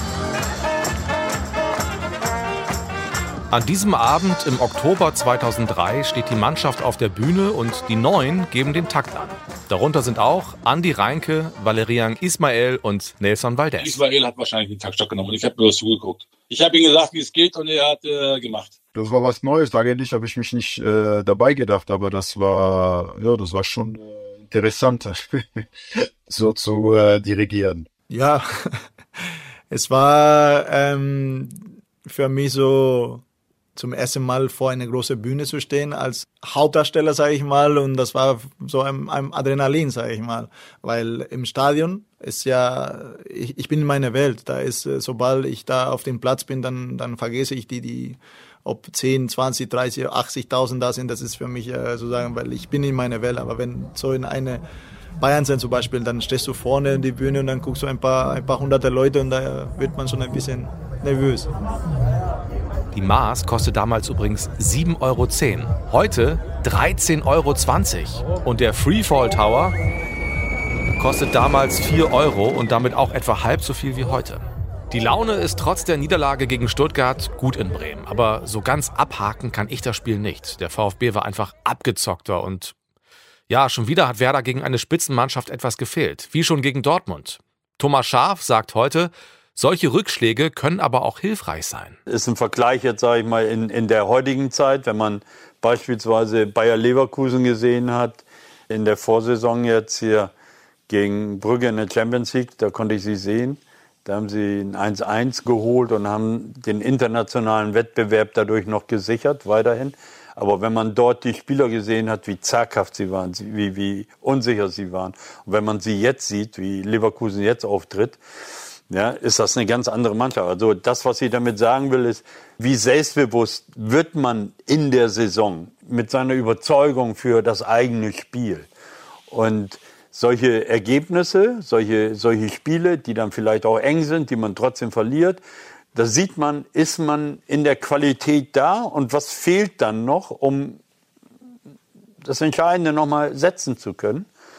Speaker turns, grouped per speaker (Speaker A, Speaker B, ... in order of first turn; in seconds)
Speaker A: 3.5-14.0, 62.9-69.7, 71.0-82.7, 83.5-92.0
Speaker B: 13.8-18.7
Speaker C: 18.9-27.9
Speaker D: 28.1-28.4, 29.7-31.5, 32.0-33.2, 33.8-54.6, 55.2-61.5
Speaker E: 92.1-100.3, 100.9-118.2, 118.9-128.7, 129.3-135.4, 135.9-140.8, 142.2-144.2